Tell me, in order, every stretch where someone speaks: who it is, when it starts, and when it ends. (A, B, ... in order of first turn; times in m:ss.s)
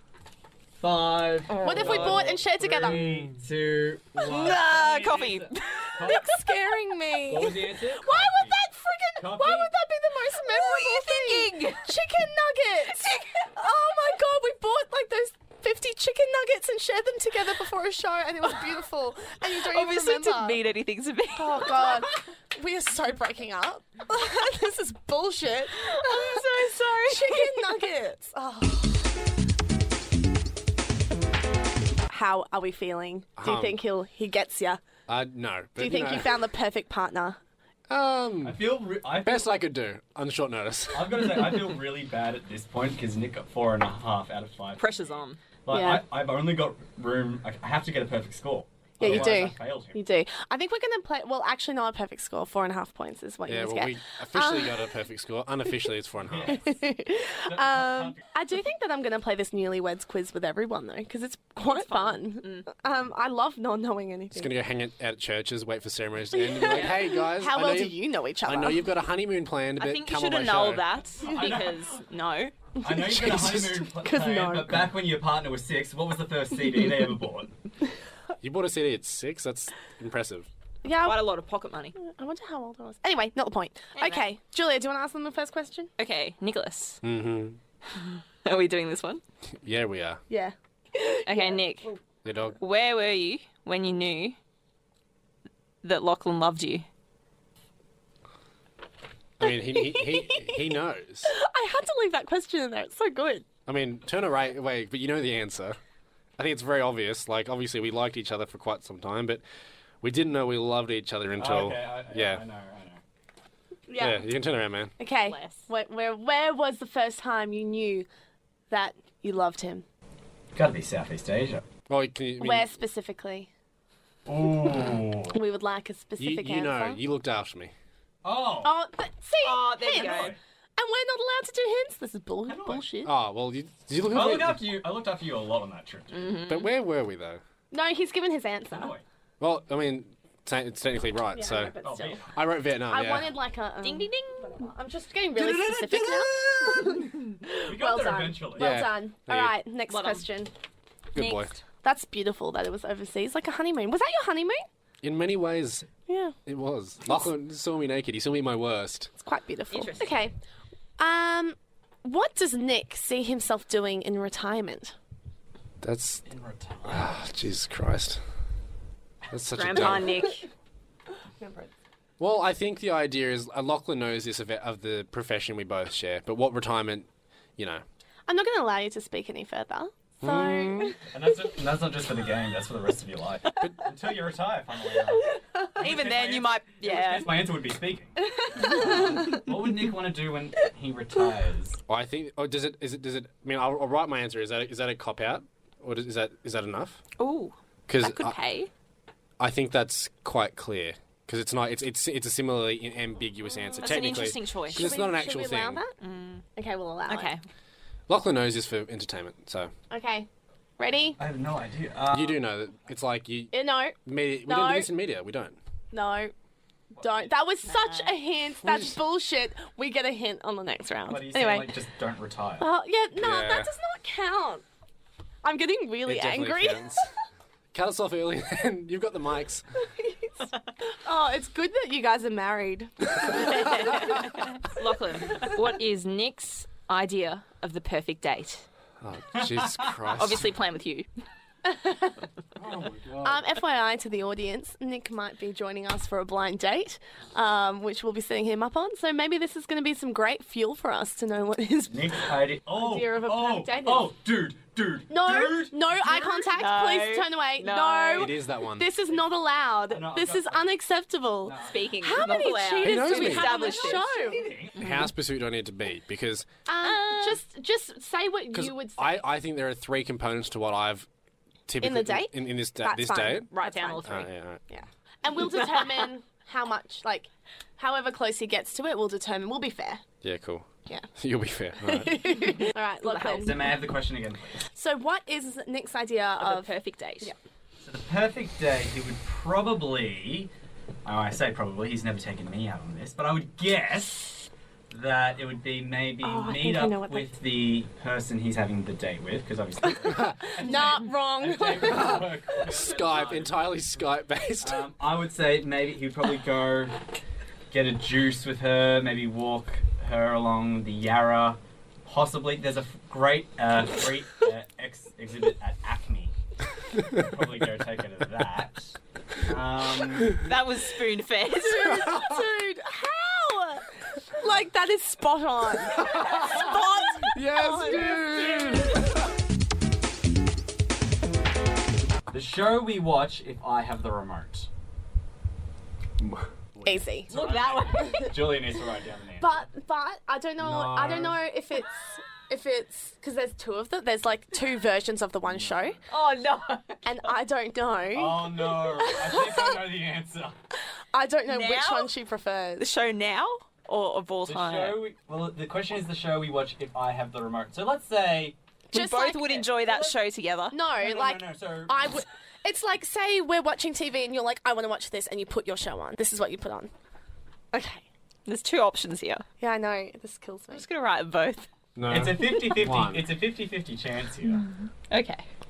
0:00.8-0:06.2 A
0:01.5-0:02.3 B
0:01.6-0:03.0 C
0:02.9-0:03.1 D
0:04.2-0:06.2 B
0:06.0-0:20.6 C
0:07.3-0:08.6 A
0:09.2-0:09.7 A
0:10.4-0:11.9 B
0:19.6-0:22.1 B
0:21.3-0:29.0 C
0:25.7-0:27.8 B
0:32.1-0:34.8 C
0:33.4-0:33.8 D
0:35.1-0:36.4 D
0:35.8-0:37.4 C
0:37.9-0:41.2 D
0:38.4-0:39.6 A
0:40.9-0:50.0 A
0:44.8-0:45.4 B
0:45.7-0:46.0 C
0:49.0-0:54.9 C
0:49.0-0:49.4 D
0:53.5-0:56.6 D
0:56.2-0:56.6 A
0:56.4-1:04.5 C
0:57.4-0:58.2 A
1:01.6-1:02.7 B
1:04.3-1:10.9 D
1:06.3-1:08.9 C
1:06.6-1:07.1 B
1:09.8-1:12.5 B
1:11.2-1:11.6 C
1:11.2-1:12.0 A
1:12.8-1:14.9 C
1:12.8-1:17.5 A
1:18.4-1:20.5 D
1:20.8-1:21.3 C
1:21.0-1:21.9 B
1:22.0-1:25.9 C
1:23.9-1:24.2 B
1:26.0-1:27.0 B
1:27.0-1:27.6 D
1:27.9-1:29.2 B
1:29.6-1:30.2 D
1:30.3-1:32.0 C
1:31.2-1:31.9 B
1:32.2-1:32.6 D
1:32.6-1:34.4 B
1:35.8-1:36.9 B
1:39.4-1:41.3 D
1:39.4-1:43.4 C
1:43.6-1:45.8 D
1:46.4-1:49.4 D
1:50.0-1:52.4 D
1:51.4-1:53.0 A
1:53.9-1:54.2 C
1:54.0-1:54.9 D
1:55.0-1:58.1 C
1:55.3-1:55.6 B
1:58.7-1:59.8 C
2:00.5-2:01.6 A
2:01.9-2:02.7 D
2:02.4-2:03.5 C
2:04.2-2:05.4 A
2:05.3-2:07.0 C
2:06.2-2:07.7 D
2:08.2-2:08.8 A
2:08.6-2:13.1 C
2:09.4-2:10.4 B
2:09.9-2:10.4 A
2:12.5-2:12.8 A
2:13.0-2:14.7 D
2:14.1-2:16.4 A
2:16.1-2:16.7 B
2:16.4-2:17.4 D
2:17.7-2:19.0 C
2:18.7-2:19.0 A
2:19.4-2:21.8 D
2:21.3-2:22.3 C
2:21.8-2:22.3 A
2:22.3-2:23.4 D
2:22.8-2:30.5 C
2:23.8-2:24.6 B
2:25.4-2:26.6 A
2:27.6-2:28.8 A
2:28.6-2:29.6 D
2:29.9-2:30.2 B
2:31.1-2:31.5 D
2:31.1-2:31.6 B
2:31.8-2:34.6 C
2:35.0-2:35.9 D
2:36.1-2:36.3 C
2:36.4-2:39.1 D
2:39.2-2:40.4 C
2:39.7-2:40.1 B
2:41.0-2:44.9 C
2:45.8-2:46.2 D
2:46.2-2:47.2 A
2:46.8-2:48.2 D
2:49.3-2:50.1 D
2:49.6-2:50.4 B
2:51.4-2:51.7 C
2:52.2-2:57.8 D
2:58.3-3:01.0 C
3:00.2-3:01.0 D
3:01.1-3:11.8 A
3:05.8-3:07.4 B
3:08.2-3:09.4 C
3:08.8-3:09.2 B
3:11.9-3:17.0 D
3:17.2-3:18.7 B
3:17.9-3:18.4 D
3:19.4-3:25.8 D
3:23.5-3:23.9 C
3:23.8-3:24.9 B
3:24.7-3:25.9 C
3:26.0-3:26.4 B
3:26.6-3:27.3 C
3:27.1-3:27.4 B
3:28.1-3:29.7 D
3:29.9-3:30.3 C
3:30.8-3:31.2 C
3:31.2-3:32.4 A
3:32.1-3:35.6 D
3:33.5-3:34.9 C
3:35.9-3:36.3 C
3:36.9-3:37.3 A
3:37.0-3:41.7 C
3:37.6-3:38.2 B
3:41.1-3:42.6 A
3:42.6-3:44.6 C
3:43.2-3:43.7 D
3:45.4-3:47.0 C
3:46.0-3:47.0 D
3:47.7-3:49.6 D
3:50.0-3:54.3 C
3:53.3-3:58.6 B
3:59.0-4:00.5 D
3:59.4-4:00.2 A
4:00.2-4:01.1 B
4:01.6-4:02.2 C
4:02.6-4:03.4 D
4:03.2-4:14.1 C
4:11.9-4:16.2 A
4:15.1-4:24.5 C
4:16.2-4:18.4 B
4:18.1-4:18.9 D
4:19.9-4:20.6 A
4:21.4-4:22.4 A
4:21.6-4:24.1 B
4:22.8-4:23.7 D
4:23.9-4:24.9 A
4:24.8-4:26.5 D
4:26.6-4:29.2 C
4:26.8-4:27.4 B
4:28.5-4:31.1 D
4:31.7-4:33.5 D
4:31.8-4:34.1 C
4:33.5-4:34.3 B
4:34.0-4:34.6 D
4:34.7-4:40.0 C
4:40.2-4:40.6 D
4:41.2-4:42.2 D
4:41.8-4:43.7 C
4:43.0-4:43.7 B
4:43.3-4:44.7 A
4:44.7-4:47.4 C
4:46.4-4:47.3 B
4:47.8-4:50.5 A
4:51.0-5:03.7 A
4:56.2-4:57.3 C
5:00.1-5:00.4 D
5:00.6-5:02.8 C
5:01.8-5:04.9 D
5:04.6-5:07.0 A
5:07.7-5:16.3 A
5:17.0-5:20.4 A
5:20.4-5:21.9 B
5:21.6-5:28.6 C
5:21.9-5:22.3 D
5:25.9-5:29.3 D
5:26.2-5:26.8 B
5:27.8-5:29.1 B
5:32.3-5:34.7 A
5:36.2-5:36.5 D
5:36.7-5:39.6 A
5:36.8-5:37.3 C
5:37.3-5:38.5 B
5:37.9-5:38.6 C
5:39.4-5:46.0 C
5:40.6-5:41.4 D
5:46.1-5:47.3 B
5:47.0-5:49.9 C
5:48.1-5:50.5 A
5:51.1-5:52.9 C
5:51.5-5:52.1 B
5:52.8-5:55.0 B
5:54.5-5:58.6 A
5:58.9-5:59.6 C
5:58.9-6:00.8 B
5:59.4-6:00.2 A
6:00.7-6:06.9 C
6:00.9-6:02.1 A
6:07.7-6:08.0 C
6:08.4-6:09.4 B
6:09.6-6:10.9 C
6:10.7-6:11.7 B
6:11.9-6:13.3 D
6:12.1-6:14.6 A
6:14.6-6:15.4 B